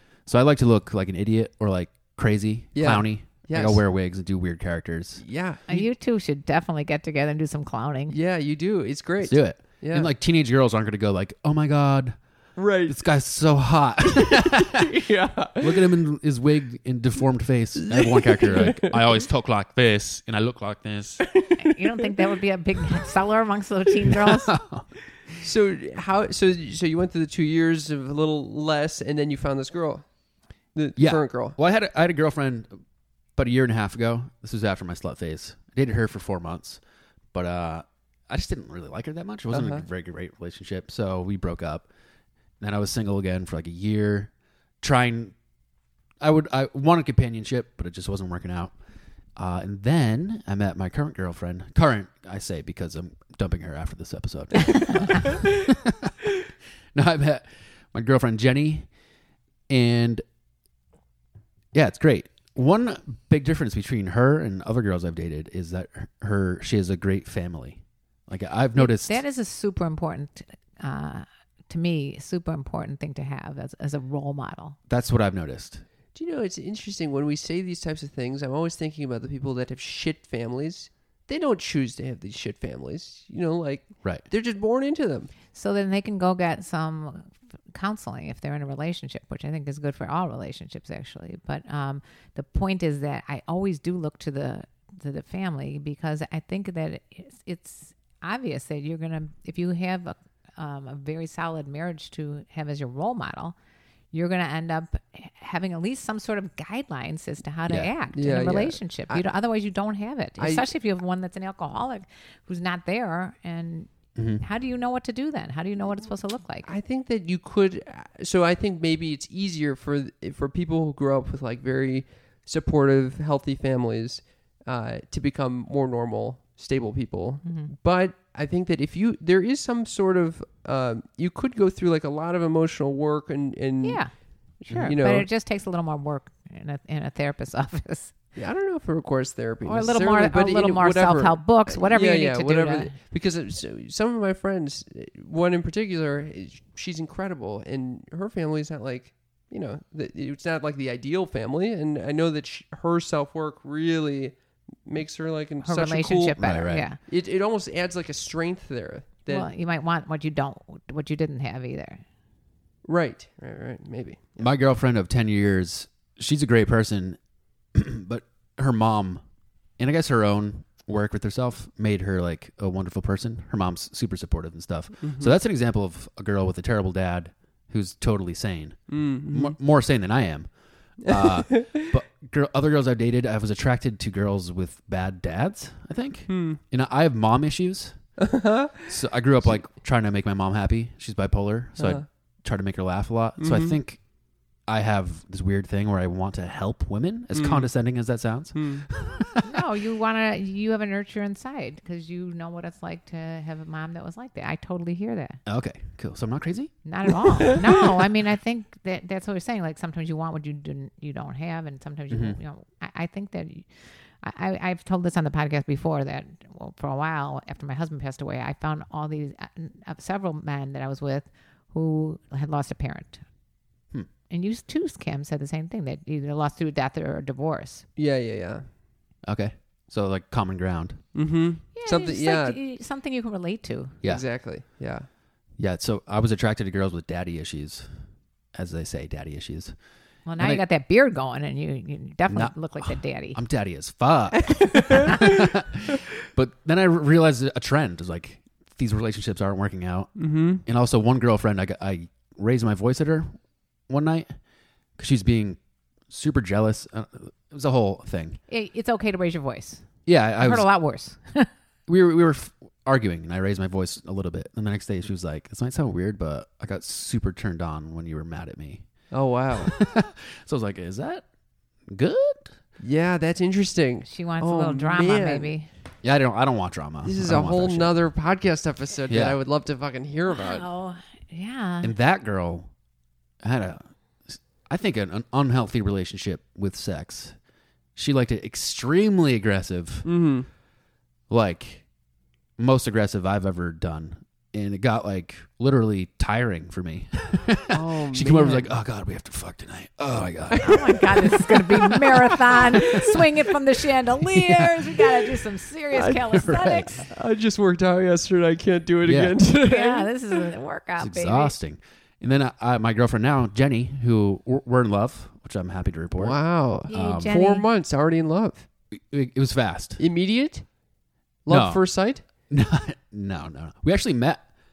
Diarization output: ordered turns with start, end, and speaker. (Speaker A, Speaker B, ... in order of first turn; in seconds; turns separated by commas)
Speaker A: 0.2-5.2, Speaker B: 2.7-3.8, Speaker B: 5.2-5.8, Speaker C: 5.7-8.1, Speaker B: 8.1-10.1, Speaker A: 9.2-12.2, Speaker B: 12.6-13.0, Speaker A: 12.8-15.0, Speaker B: 14.1-15.9, Speaker A: 15.6-21.3, Speaker B: 17.8-19.1, Speaker B: 21.3-21.6, Speaker C: 21.6-24.5, Speaker A: 24.2-24.9, Speaker B: 25.4-30.1, Speaker B: 30.7-31.6, Speaker A: 30.9-32.8, Speaker A: 33.4-36.8, Speaker A: 37.3-41.9, Speaker B: 39.5-39.9, Speaker A: 42.6-45.3, Speaker A: 46.2-48.7, Speaker A: 49.4-56.1, Speaker A: 56.9-58.9, Speaker A: 59.7-60.2, Speaker A: 61.7-69.2, Speaker C: 68.8-74.8, Speaker A: 74.9-75.8, Speaker B: 76.1-85.3, Speaker C: 85.5-103.5, Speaker C: 104.1-116.7, Speaker B: 108.1-109.2, Speaker B: 110.4-110.7, Speaker A: 114.2-114.4, Speaker B: 116.6-134.0, Speaker C: 127.4-127.7, Speaker C: 133.8-134.1, Speaker B: 134.6-135.3, Speaker A: 134.7-134.9, Speaker C: 134.7-138.1, Speaker B: 138.3-156.4, Speaker C: 139.6-142.9, Speaker C: 155.6-157.0, Speaker A: 156.4-156.9, Speaker B: 157.0-159.5, Speaker C: 159.3-162.0, Speaker B: 162.8-164.4, Speaker A: 164.4-167.2, Speaker A: 167.7-169.2, Speaker A: 169.8-188.0, Speaker B: 175.0-175.3, Speaker B: 178.9-179.6, Speaker B: 181.0-181.9, Speaker B: 186.3-186.6, Speaker B: 188.2-188.9, Speaker A: 188.9-194.0, Speaker B: 191.8-192.0, Speaker B: 193.4-193.8, Speaker A: 194.7-199.5, Speaker B: 197.3-197.7, Speaker B: 198.5-198.8, Speaker C: 199.4-205.4, Speaker A: 205.4-206.7, Speaker C: 206.8-213.7, Speaker A: 212.1-212.4, Speaker C: 214.2-223.2, Speaker C: 224.3-227.8, Speaker B: 228.0-228.7, Speaker A: 229.2-231.0, Speaker B: 231.1-232.6, Speaker C: 231.8-234.0, Speaker B: 234.0-235.1, Speaker A: 235.6-237.9, Speaker A: 238.5-239.7, Speaker C: 240.2-243.4, Speaker A: 240.4-240.6, Speaker A: 242.3-253.3, Speaker B: 244.4-245.5, Speaker B: 250.2-250.6, Speaker A: 253.9-254.3, Speaker A: 255.0-258.4, Speaker C: 258.5-259.8, Speaker A: 260.1-260.7, Speaker C: 260.4-261.5, Speaker A: 261.9-268.8, Speaker B: 269.1-269.7, Speaker A: 269.6-271.2, Speaker A: 271.9-272.5, Speaker B: 272.8-275.5, Speaker C: 274.1-275.7, Speaker A: 276.0-277.9, Speaker B: 277.0-280.7, Speaker A: 279.1-279.4, Speaker C: 280.3-281.9, Speaker A: 281.8-282.7, Speaker A: 283.4-287.4, Speaker A: 287.9-290.1, Speaker B: 290.0-290.5, Speaker A: 291.3-291.8, Speaker A: 292.6-301.2, Speaker B: 297.7-298.7, Speaker B: 300.5-300.8, Speaker C: 300.5-307.0, Speaker B: 302.1-302.5, Speaker A: 302.5-303.2, Speaker A: 304.3-305.1, Speaker B: 305.9-306.4, Speaker A: 306.3-306.9, Speaker B: 307.0-310.4, Speaker A: 309.0-309.4, Speaker C: 309.6-311.5, Speaker A: 311.0-317.3, Speaker B: 316.2-318.6, Speaker C: 316.9-317.6, Speaker A: 318.9-320.0, Speaker B: 320.0-320.6, Speaker B: 321.4-322.2, Speaker A: 321.5-321.8, Speaker A: 322.5-324.4